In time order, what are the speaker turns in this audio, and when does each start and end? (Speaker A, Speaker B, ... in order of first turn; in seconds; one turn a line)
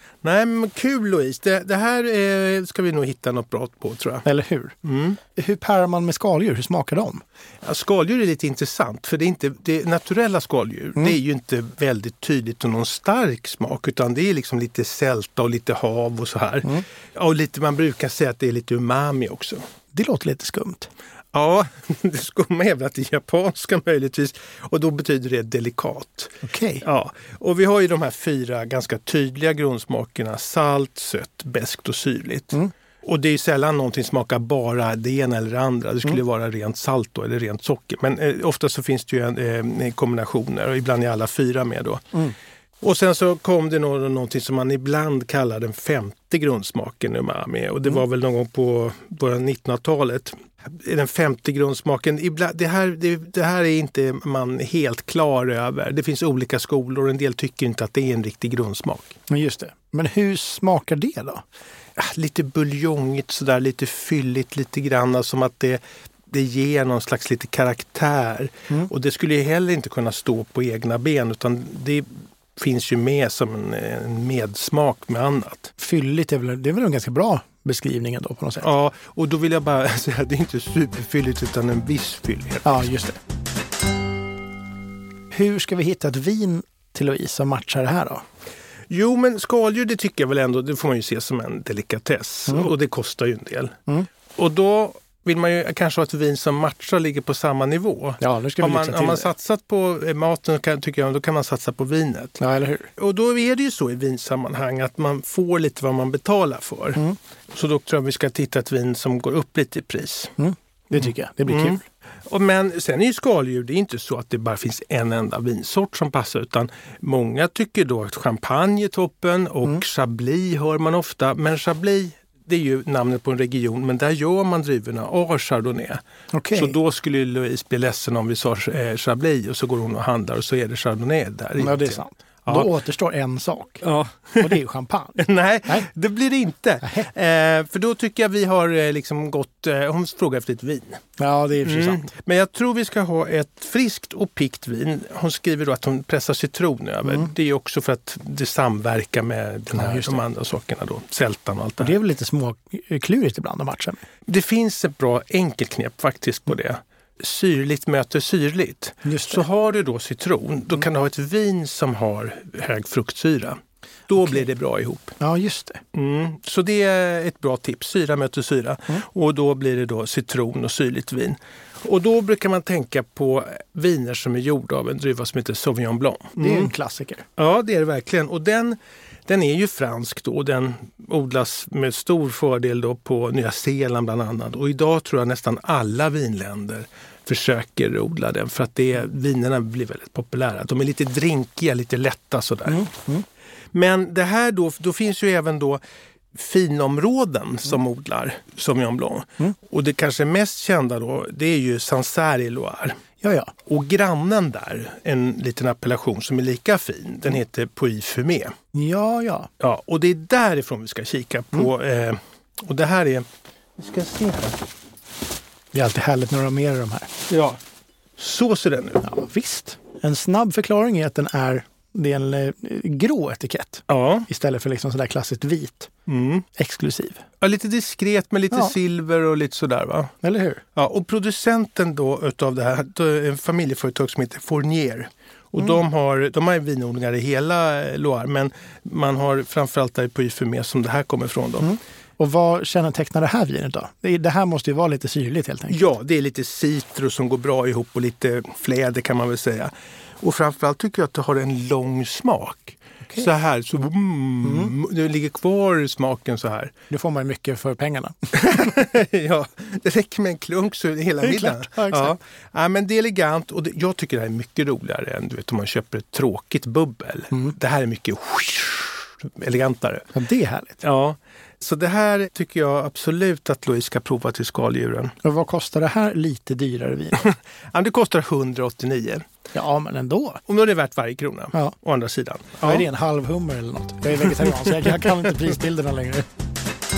Speaker A: 0.2-4.2
Speaker B: 4.2-4.7
Speaker A: 4.8-5.2
Speaker B: 5.4-7.2
Speaker A: 7.6-19.6
Speaker B: 19.9-20.9
Speaker A: 21.3-42.2
Speaker B: 26.4-26.8
Speaker A: 42.8-59.2
Speaker B: 59.3-61.4
Speaker A: 62.0-75.7
Speaker B: 75.8-78.7
Speaker A: 78.6-82.9
Speaker B: 82.6-83.2
Speaker B: 85.3-88.2
Speaker A: 88.9-93.8
Speaker A: 94.3-102.4
Speaker B: 98.2-99.3
Speaker B: 102.4-102.9
Speaker A: 102.9-110.3
Speaker B: 110.4-111.8
Speaker A: 110.9-126.0
Speaker B: 126.3-126.8
Speaker A: 126.5-132.7
Speaker B: 131.6-133.8
Speaker A: 133.8-134.5
Speaker B: 134.4-135.2
Speaker A: 135.2-141.0
Speaker B: 136.8-137.1
Speaker B: 141.2-142.1
Speaker A: 141.6-152.0
Speaker B: 149.7-150.2
Speaker B: 151.8-154.0
Speaker A: 154.3-165.2
Speaker B: 159.0-159.4
Speaker B: 165.2-165.8
Speaker A: 165.9-176.7
Speaker B: 176.4-177.2
Speaker A: 177.4-192.9
Speaker B: 192.7-193.2
Speaker A: 193.7-195.8
Speaker A: 196.3-203.0
Speaker B: 203.2-203.5
Speaker A: 203.7-208.5
Speaker B: 208.7-209.5
Speaker A: 209.6-214.6
Speaker B: 215.7-217.1
Speaker A: 217.3-217.6
Speaker A: 218.2-219.1
Speaker B: 219.0-225.9
Speaker A: 223.9-224.3
Speaker A: 226.1-226.4
Speaker B: 226.6-227.2
Speaker A: 227.4-230.1
Speaker B: 230.2-230.6
Speaker A: 230.8-241.8
Speaker B: 241.6-245.8
Speaker A: 245.7-256.7
Speaker B: 254.4-254.7
Speaker B: 256.9-258.7
Speaker A: 258.3-270.1
Speaker B: 261.2-262.1
Speaker B: 270.1-270.8
Speaker A: 270.8-275.2
Speaker B: 275.2-277.2
Speaker A: 277.1-279.2
Speaker B: 279.5-280.4
Speaker A: 280.5-282.9
Speaker B: 282.6-286.2